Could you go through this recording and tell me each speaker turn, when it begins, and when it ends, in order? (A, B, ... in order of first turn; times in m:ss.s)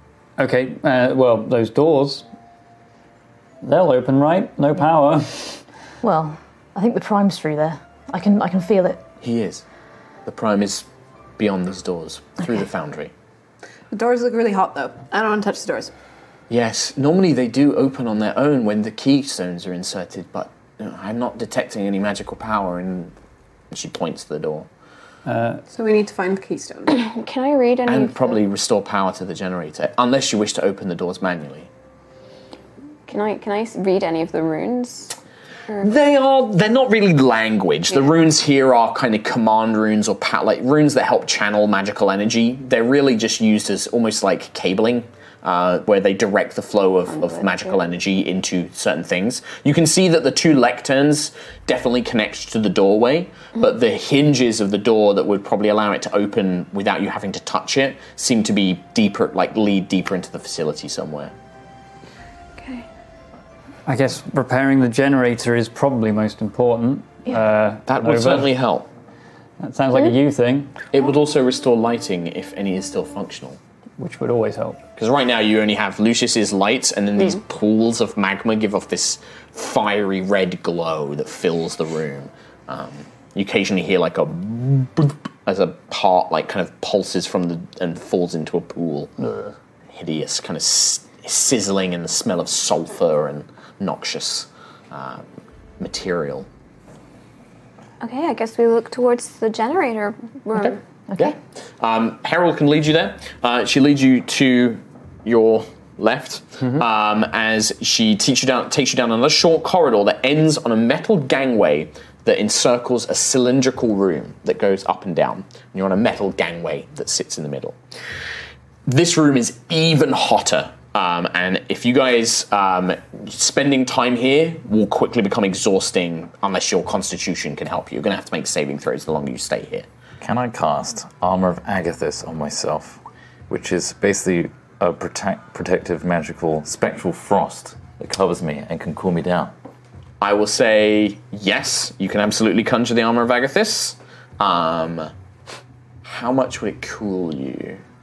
0:00.4-0:02.3 A
0:03.6-0:05.6 A
0:06.0-0:09.0 B
0:09.2-0:09.6 C
0:10.3-0:10.9 C
0:11.4-0:13.1 C
0:13.9-0:15.9 D
0:16.5-0:23.1 C
0:23.7-0:24.7 C
0:25.3-0:25.6 A
0:25.7-0:27.0 D
0:26.9-0:28.4 E
0:27.9-0:31.7 C
0:33.1-0:35.1 E
0:35.8-1:01.3 C
0:47.2-0:47.7 E
1:02.6-1:02.9 E
1:03.9-1:08.5 A
1:07.9-1:08.9 C
1:09.6-1:10.7 A
1:10.9-1:13.6 C
1:14.0-1:14.8 A
1:15.0-1:29.1 C
1:29.2-1:29.5 A
1:29.9-1:35.2 C
1:35.8-1:36.5 C
1:38.0-1:40.8 E
1:41.2-1:57.8 C
1:58.9-2:09.9 C
2:10.2-2:13.0 F
2:13.5-2:19.5 F
2:20.2-2:25.1 C
2:26.0-2:27.8 C